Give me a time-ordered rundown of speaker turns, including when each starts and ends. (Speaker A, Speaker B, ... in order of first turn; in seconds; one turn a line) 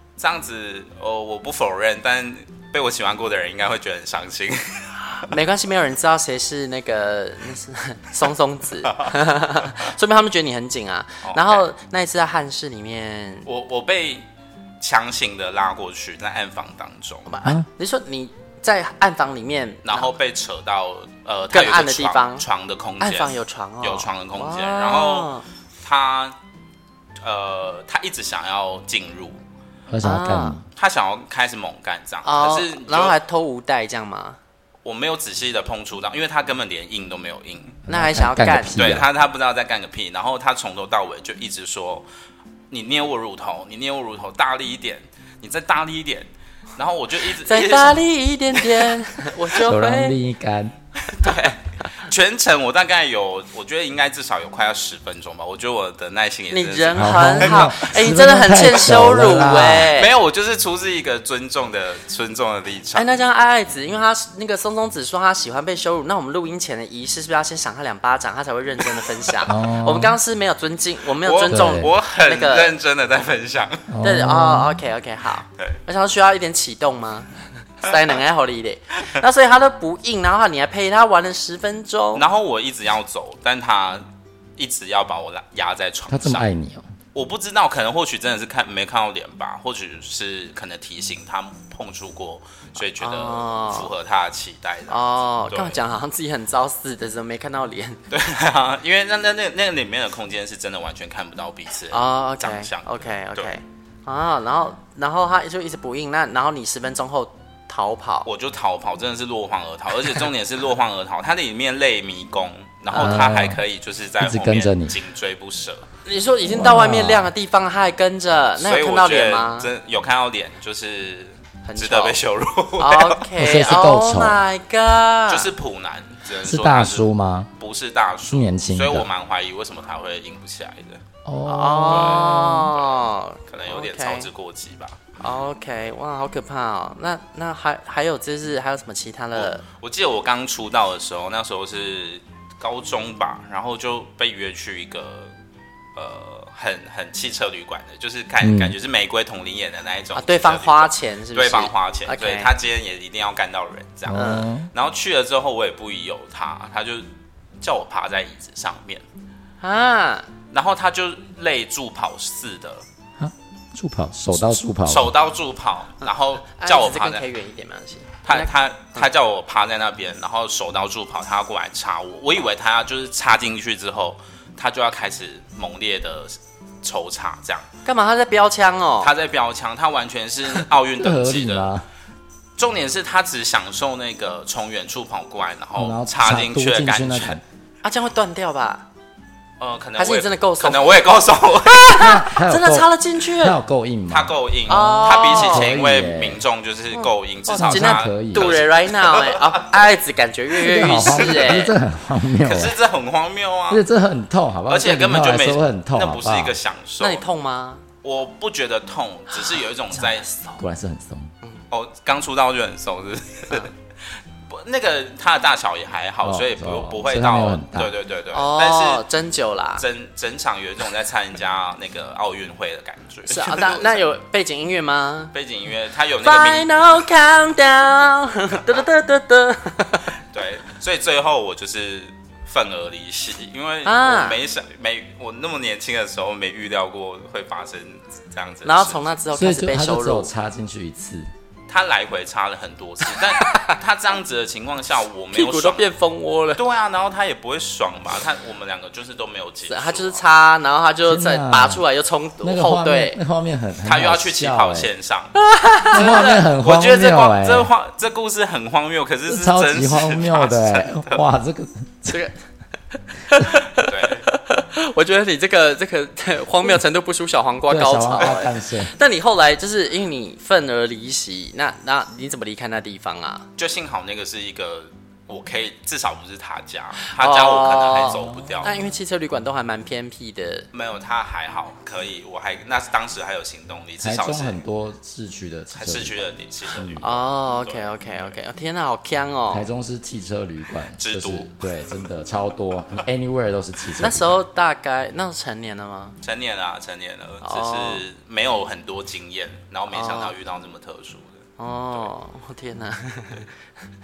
Speaker A: 0.2-5.0
Speaker B: 5.2-13.5
Speaker A: 11.2-11.7
Speaker A: 13.5-14.2
Speaker A: 14.8-17.3
Speaker B: 17.3-20.1
Speaker A: 19.9-25.3
Speaker B: 21.5-22.5
Speaker B: 23.0-25.4
Speaker A: 25.8-26.4
Speaker A: 27.2-29.4
Speaker C: 29.9-30.7
Speaker B: 30.0-30.6
Speaker A: 30.8-33.1
Speaker B: 32.2-34.4
Speaker A: 34.9-37.8
Speaker C: 37.9-39.1
Speaker B: 37.9-38.8
Speaker A: 38.8-42.1
Speaker A: 42.7-48.0
Speaker B: 47.4-50.2
Speaker A: 48.5-49.0
Speaker C: 49.6-50.8
Speaker A: 51.1-57.8
Speaker B: 56.5-60.1
Speaker C: 57.0-59.9
Speaker A: 59.9-63.1
Speaker B: 63.0-72.8
Speaker C: 69.5-70.2
Speaker A: 71.2-73.9
Speaker C: 71.5-71.9
Speaker C: 73.9-74.8
Speaker B: 74.0-82.2
Speaker A: 82.2-84.0
Speaker A: 84.6-86.5
Speaker C: 86.1-86.9
Speaker A: 87.1-95.8
Speaker B: 93.0-93.9
Speaker B: 94.9-98.0
Speaker A: 98.1-103.5
Speaker B: 101.9-108.3
Speaker A: 108.2-115.8
Speaker B: 112.9-113.3
Speaker C: 112.9-113.6
Speaker C: 114.2-115.0
Speaker B: 116.1-119.7
Speaker C: 116.5-117.3
Speaker A: 118.6-123.2
Speaker B: 121.6-122.2
Speaker B: 122.8-125.5
Speaker C: 123.4-124.4
Speaker A: 125.3-127.1
Speaker C: 126.4-127.5
Speaker A: 127.6-131.0
Speaker C: 128.3-129.1
Speaker C: 131.2-132.7
Speaker B: 131.5-134.3
Speaker A: 131.9-135.0
Speaker B: 135.2-139.6
Speaker A: 139.4-145.3
Speaker A: 146.0-157.1
Speaker C: 148.4-148.8
Speaker B: 150.2-152.5
Speaker C: 154.1-154.7
Speaker B: 154.1-154.5
Speaker A: 157.6-159.0
Speaker B: 159.6-160.3
Speaker A: 160.5-162.8
Speaker C: 163.2-165.1
Speaker A: 164.3-167.2
Speaker B: 166.5-169.1
Speaker A: 168.2-177.7
Speaker B: 177.9-179.1
Speaker A: 179.0-181.7
Speaker C: 181.0-181.9
Speaker A: 182.6-187.4
Speaker C: 185.8-187.4
Speaker B: 187.8-188.8
Speaker A: 189.6-192.1
Speaker B: 190.0-191.1
Speaker B: 191.7-193.6
Speaker C: 191.9-196.4
Speaker A: 194.1-199.6
Speaker B: 194.7-195.7
Speaker B: 197.0-201.7
Speaker C: 197.5-198.6
Speaker C: 200.6-202.8
Speaker A: 201.1-201.6
Speaker A: 202.4-203.8
Speaker C: 203.7-206.6
Speaker A: 204.7-207.2
Speaker B: 207.0-207.8
Speaker A: 208.0-210.3
Speaker C: 210.6-211.3
Speaker A: 211.7-213.7
Speaker A: 214.5-219.1
Speaker C: 216.2-217.9
Speaker B: 218.3-219.8
Speaker A: 219.8-224.0
Speaker B: 223.3-225.3
Speaker A: 225.3-226.7
Speaker B: 226.2-230.1
Speaker A: 230.3-239.0
Speaker B: 233.8-234.4
Speaker B: 238.6-240.3
Speaker C: 239.3-241.3
Speaker A: 241.7-245.9
Speaker B: 243.1-243.8
Speaker B: 245.3-246.6
Speaker A: 246.6-250.2
Speaker B: 249.7-253.2
Speaker C: 251.1-251.8
Speaker C: 252.4-254.9
Speaker A: 253.8-255.3
Speaker B: 255.4-256.0
Speaker A: 255.9-261.2
Speaker C: 255.9-257.7
Speaker C: 259.3-262.2
Speaker B: 262.1-262.3
Speaker B: 263.2-273.5
Speaker A: 263.7-264.3
Speaker C: 267.7-268.9
Speaker A: 273.6-278.7
Speaker B: 277.1-280.7
Speaker C: 278.1-278.9
Speaker A: 280.7-284.6
Speaker C: 284.0-286.2
Speaker A: 285.7-288.3
Speaker C: 286.7-287.1
Speaker B: 287.0-289.7
Speaker C: 289.5-294.4
Speaker A: 291.0-291.6
Speaker B: 294.0-296.2
Speaker A: 296.2-302.1
Speaker B: 297.4-298.0
Speaker B: 299.9-300.3
Speaker B: 301.6-303.5